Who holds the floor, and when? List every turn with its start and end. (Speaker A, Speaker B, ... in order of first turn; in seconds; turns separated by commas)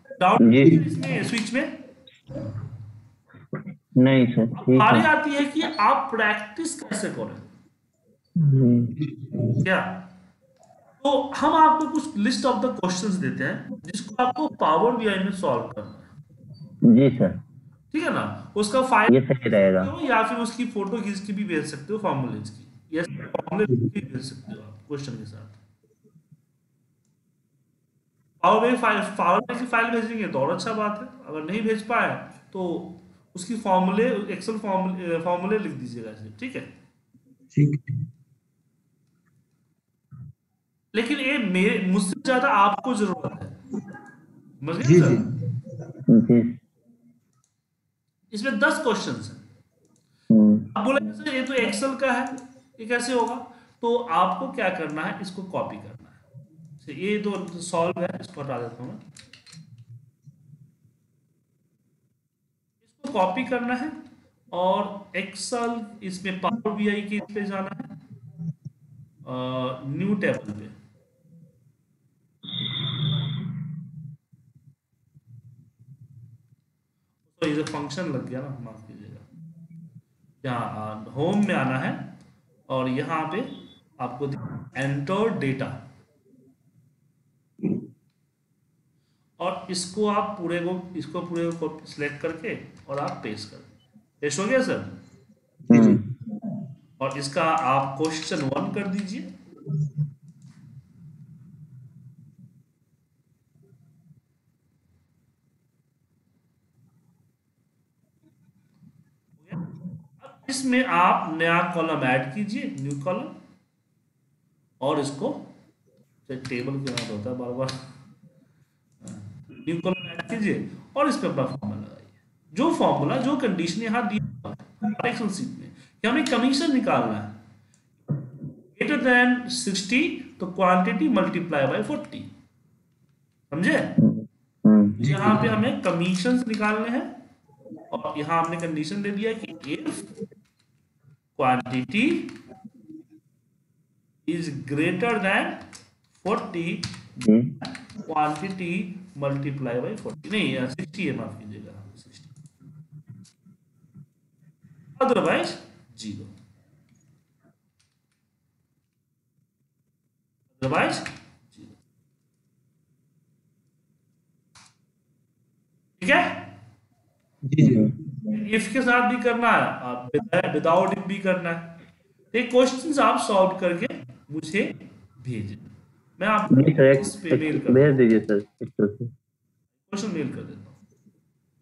Speaker A: 0.2-1.7, Speaker B: 0.4-0.8, Speaker B: 4.0-5.1, Speaker A: 4.6-7.5, Speaker B: 8.4-8.9, Speaker C: 9.0-9.6, Speaker A: 9.6-9.9, Speaker A: 11.0-16.1, Speaker B: 16.9-17.4, Speaker A: 17.9-25.6, Speaker B: 19.1-19.9, Speaker C: 23.7-23.9, Speaker A: 28.4-36.7, Speaker C: 37.5-38.0, Speaker A: 40.9-43.5, Speaker A: 44.6-45.2, Speaker C: 44.8-45.3, Speaker B: 46.1-46.6, Speaker A: 48.3-49.4, Speaker B: 50.3-50.7, Speaker A: 50.8-56.2, Speaker A: 56.8-59.0, Speaker A: 62.8-64.0, Speaker A: 64.5-67.9, Speaker A: 69.2-70.8, Speaker A: 77.3-79.3, Speaker A: 80.4-82.1, Speaker A: 82.7-85.8, Speaker A: 89.4-93.7, Speaker A: 94.2-94.9, Speaker C: 95.7-96.0, Speaker B: 95.7-96.0, Speaker A: 97.0-99.3, Speaker A: 110.2-113.3, Speaker A: 114.8-115.5, Speaker A: 116.3-117.8, Speaker A: 119.0-127.4, Speaker A: 128.8-132.3, Speaker A: 133.5-133.9, Speaker B: 134.0-135.0, Speaker C: 135.0-135.6, Speaker A: 135.0-137.1, Speaker A: 137.9-140.1, Speaker A: 141.4-142.3, Speaker A: 144.2-145.6, Speaker A: 146.1-147.3, Speaker B: 147.2-147.5, Speaker A: 148.0-152.3, Speaker A: 155.0-156.3, Speaker A: 160.6-161.8, Speaker A: 166.0-166.4, Speaker C: 167.5-168.2, Speaker A: 168.3-171.7, Speaker A: 172.3-178.2, Speaker B: 176.5-179.1, Speaker A: 179.9-180.8